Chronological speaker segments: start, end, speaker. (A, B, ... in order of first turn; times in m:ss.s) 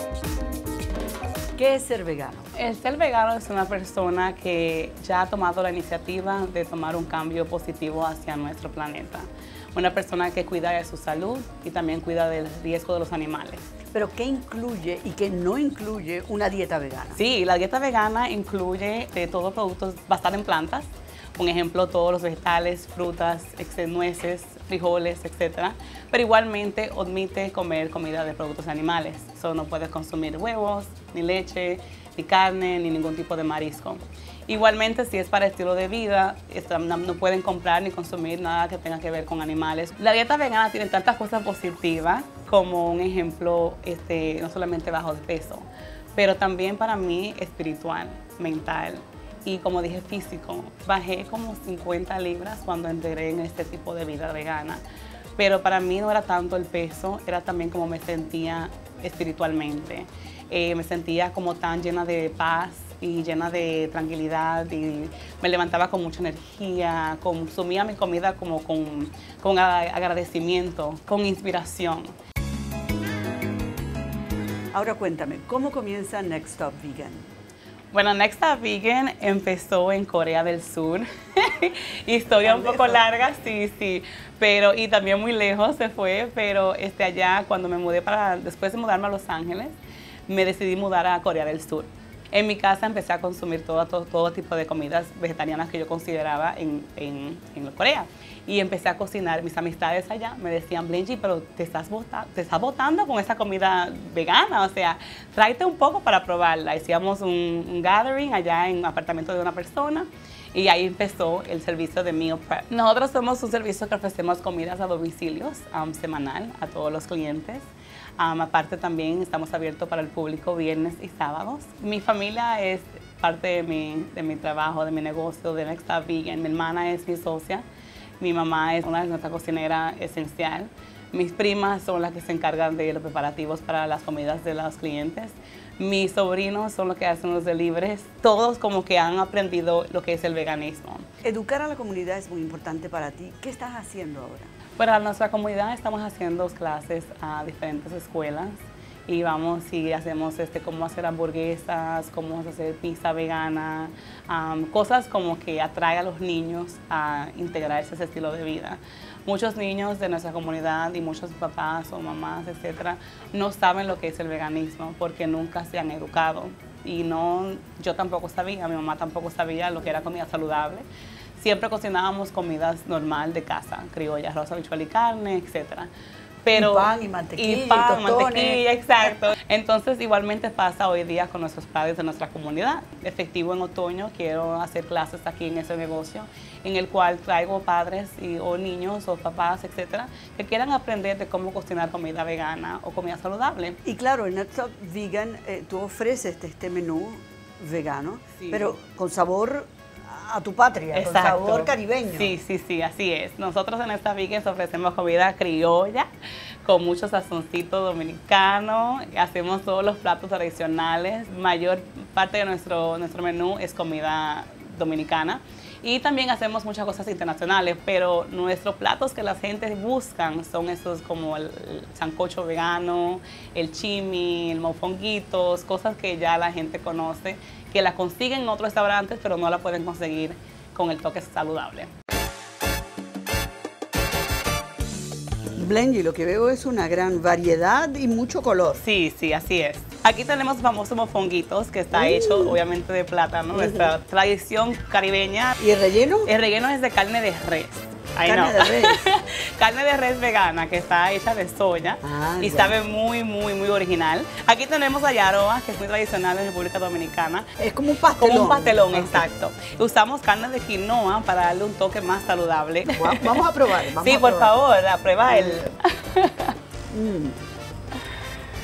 0:01.6-0:02.5 A
0:02.5-0:13.6 B
0:13.9-0:17.2 A
0:17.2-0:54.8 B
0:55.4-1:12.1 B
1:14.7-1:17.3 A
1:17.9-1:29.8 B
1:22.4-1:23.0 A
1:30.3-2:07.6 B
2:08.2-2:21.0 B
2:21.2-2:24.5 A
2:24.8-2:50.8 B
2:51.4-2:55.9 B
2:56.4-3:13.8 B
2:56.5-2:58.6 A
3:13.8-3:22.3 A
3:18.4-3:18.7 B
3:20.9-3:26.1 B
3:26.6-3:51.9 B
3:55.6-3:58.8 A
3:58.8-4:05.6 B
4:01.9-4:02.6 A
4:03.5-4:03.9 A
4:05.6-4:06.3 A
4:06.2-4:17.5 B
4:08.2-4:09.0 A
4:12.0-4:12.8 A
4:17.6-4:19.3 A
4:18.2-4:26.5 B
4:22.8-4:24.5 A
4:25.3-4:25.7 A
4:26.9-4:27.4 A